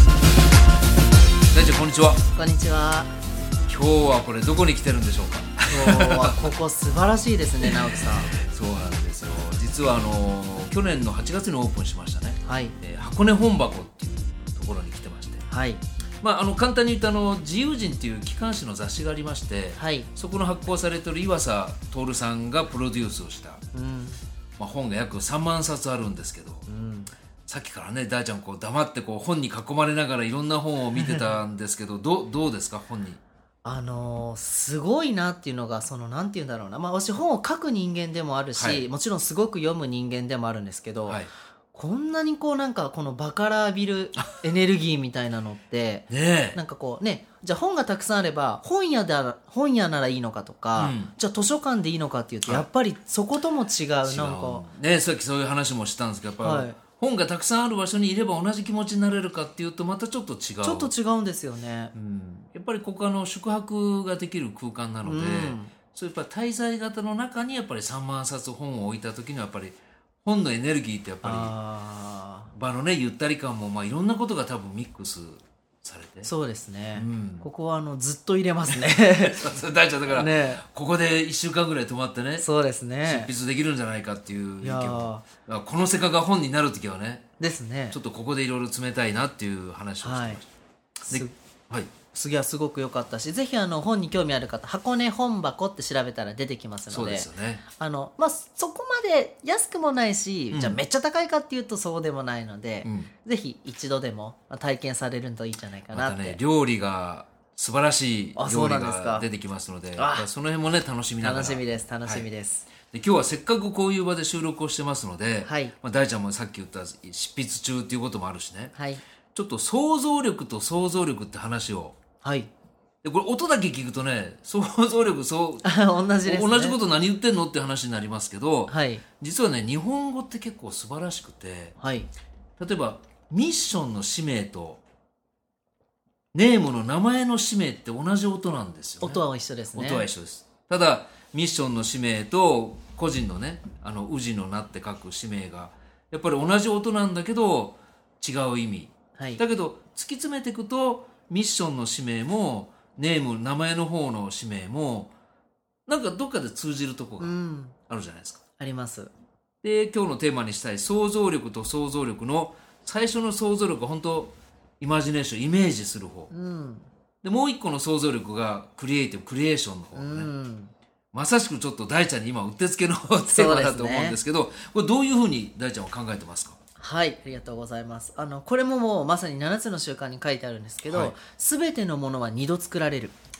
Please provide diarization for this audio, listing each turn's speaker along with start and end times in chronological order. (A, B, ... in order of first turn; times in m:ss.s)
0:01.5-0:02.2 A
0:02.3-0:03.1 B
0:03.7-0:06.5 A
0:05.7-0:08.3 B
0:07.6-0:15.4 A
0:12.4-0:12.7 B
0:15.5-0:15.8 B
0:16.2-0:23.6 A
0:19.8-0:20.1 B
0:23.7-0:24.2 B
0:24.6-0:26.7 A
0:26.7-0:27.1 B
0:27.5-0:33.2 A
0:31.0-0:31.4 B
0:33.6-0:54.6 B
0:38.6-0:38.9 A
0:41.0-0:41.3 A
0:46.1-0:46.6 A
0:50.8-0:51.1 A
0:54.0-1:00.9 A
0:56.4-0:56.8 B
1:00.6-1:01.9 B
1:01.9-1:11.5 A
1:05.0-1:05.7 B
1:11.2-1:12.5 B
1:12.5-1:16.3 A
1:16.2-1:20.6 B
1:17.0-1:17.5 A
1:18.7-1:22.4 A
1:22.4-1:23.3 B
1:23.0-1:27.2 A
1:24.6-1:25.2 B
1:27.4-1:28.0 B
1:27.9-1:30.5 A
1:30.0-1:30.4 B
1:31.0-1:31.3 B
1:31.1-1:31.9 A
1:32.1-1:46.4 B
1:36.9-1:37.6 A
1:40.5-1:40.8 A
1:42.8-1:43.1 A
1:45.9-1:52.3 A
1:48.4-1:49.3 B
1:50.0-1:50.3 B
1:51.2-1:52.7 B
1:52.8-1:58.7 A
1:55.4-1:55.7 B
1:58.7-1:59.0 B
1:59.3-2:02.0 A
2:02.2-2:02.5 B
2:03.0-2:05.7 A
2:05.6-2:06.8 B
2:06.2-2:11.7 A
2:08.7-2:09.0 B
2:11.8-2:12.1 B
2:12.6-2:14.8 A
2:16.3-2:19.2 A
2:19.0-2:20.1 B
2:19.7-2:35.1 A
2:29.2-2:29.4 B
2:35.9-2:37.3 A
2:37.2-2:37.7 B
2:37.9-2:38.4 A
2:38.6-2:39.1 B
2:39.6-2:46.3 A
2:46.3-2:46.9 B
2:47.2-2:50.3 A
2:49.9-2:50.7 B
2:51.1-2:56.6 A
2:53.2-2:54.2 B
2:56.8-3:03.1 B
3:00.9-3:01.1 A